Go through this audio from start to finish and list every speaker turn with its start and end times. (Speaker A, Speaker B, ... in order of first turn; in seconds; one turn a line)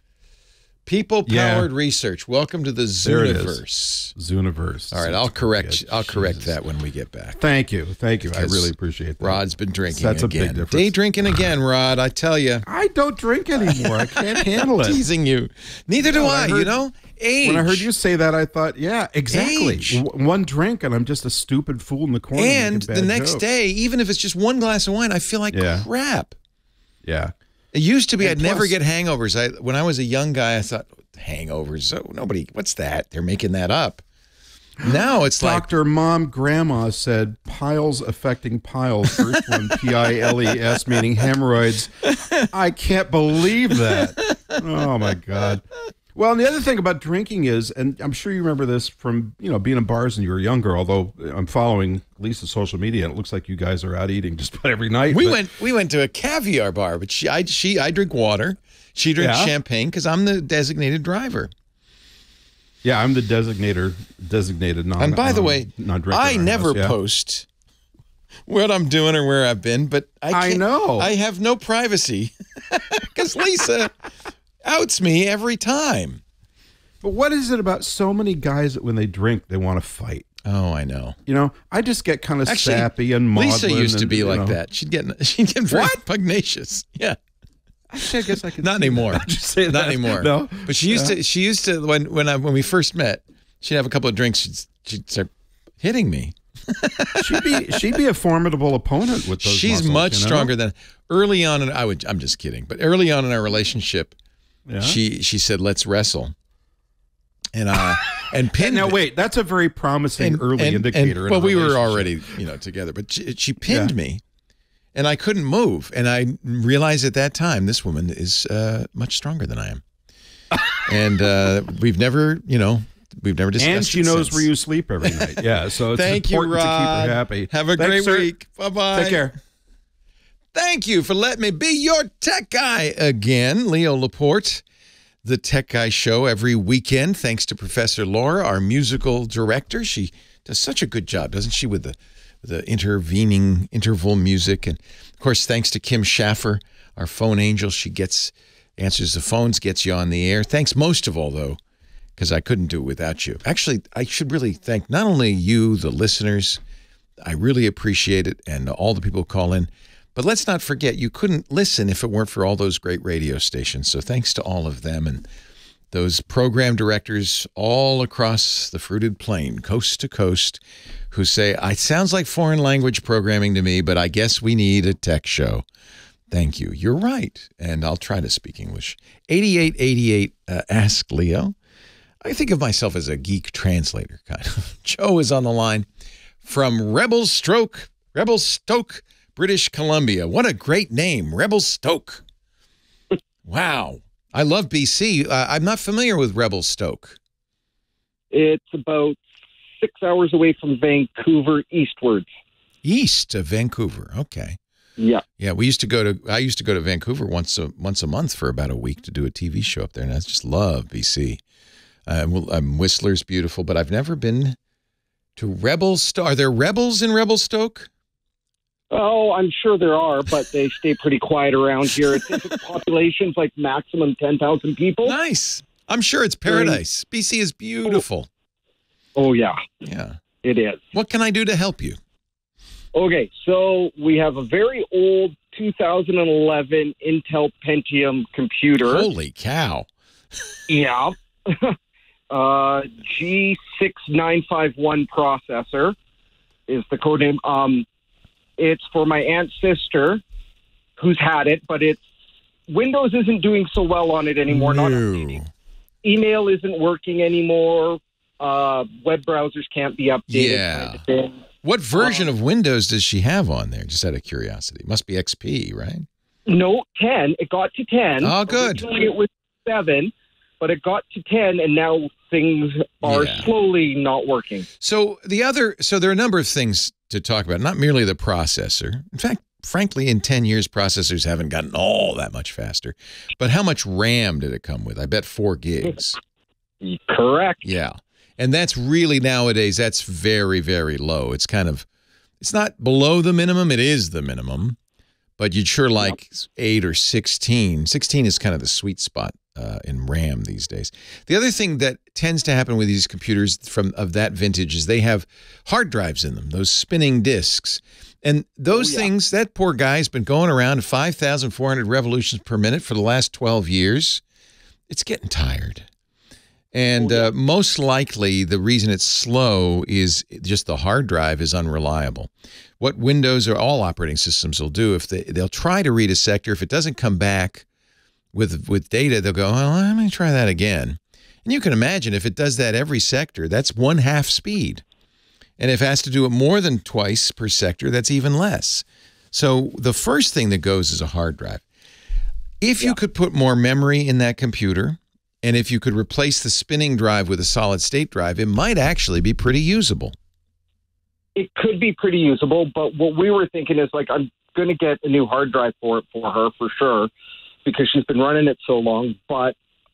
Speaker A: 0.9-4.2
Speaker B: 1.3-1.7
Speaker B: 3.0-3.6
Speaker B: 4.2-6.6
Speaker A: 4.9-7.4
Speaker B: 7.4-11.5
Speaker A: 8.2-12.7
Speaker B: 12.7-15.0
Speaker A: 13.6-17.9
Speaker B: 16.0-16.8
Speaker B: 17.4-23.4
Speaker A: 19.3-20.0
Speaker A: 22.3-26.4
Speaker B: 25.5-25.9
Speaker B: 27.0-27.3
Speaker A: 27.7-34.0
Speaker B: 28.2-28.7
Speaker B: 34.8-45.6
Speaker A: 34.8-35.7
Speaker A: 44.0-44.6
Speaker B: 46.1-55.5
Speaker A: 55.1-61.5
Speaker B: 59.2-59.5
Speaker B: 62.8-67.0
Speaker A: 65.0-67.5
Speaker A: 68.5-73.9
Speaker B: 70.3-71.1
Speaker A: 74.7-76.2
Speaker B: 77.0-80.3
Speaker A: 80.5-81.2
Speaker B: 81.3-84.6
Speaker A: 82.5-87.2
Speaker B: 85.7-86.0
Speaker B: 87.9-91.2
Speaker A: 88.0-95.3
Speaker A: 95.8-98.0
Speaker B: 97.2-100.5
Speaker A: 99.4-104.1
Speaker B: 104.7-105.0
Speaker A: 104.8-106.3
Speaker A: 107.5-109.0
Speaker B: 107.9-112.2
Speaker A: 110.2-114.2
Speaker B: 113.6-113.9
Speaker A: 115.0-119.8
Speaker A: 120.9-124.5
Speaker B: 123.6-128.3
Speaker A: 125.0-129.3
Speaker B: 128.9-129.3
Speaker A: 130.5-134.6
Speaker A: 135.2-151.6
Speaker A: 152.2-156.6
Speaker A: 157.2-165.3
Speaker A: 165.9-175.7
Speaker A: 176.3-181.6
Speaker A: 182.2-185.9
Speaker A: 186.4-192.2
Speaker A: 193.5-197.2
Speaker C: 198.3-199.2
Speaker C: 199.8-202.3
Speaker A: 202.8-204.6
Speaker A: 205.4-211.4
Speaker A: 212.1-214.6
Speaker A: 215.4-217.9
Speaker C: 218.9-225.2
Speaker A: 222.2-222.5
Speaker A: 225.0-228.3
Speaker C: 226.5-226.8
Speaker C: 229.2-229.6
Speaker A: 229.8-230.2
Speaker C: 230.4-230.8
Speaker A: 230.9-232.0
Speaker C: 232.9-239.1
Speaker A: 238.8-239.9
Speaker C: 240.7-241.7
Speaker C: 242.3-245.9
Speaker C: 246.7-247.8
Speaker C: 248.6-250.2
Speaker C: 251.0-252.0
Speaker C: 252.7-255.4
Speaker A: 254.5-255.5
Speaker C: 256.0-261.4
Speaker A: 260.3-261.0
Speaker A: 261.6-266.1
Speaker C: 262.0-262.3
Speaker C: 266.5-274.7
Speaker A: 268.2-268.9
Speaker A: 273.0-273.5
Speaker A: 274.8-286.2
Speaker C: 286.8-287.6
Speaker A: 287.6-291.9
Speaker A: 292.4-294.8
Speaker A: 295.4-314.2
Speaker C: 308.7-309.1
Speaker A: 314.9-315.9
Speaker A: 316.7-327.7
Speaker C: 317.0-317.3
Speaker A: 328.3-334.8
Speaker A: 335.6-341.6
Speaker A: 342.6-350.2
Speaker C: 351.4-357.1
Speaker C: 357.7-359.6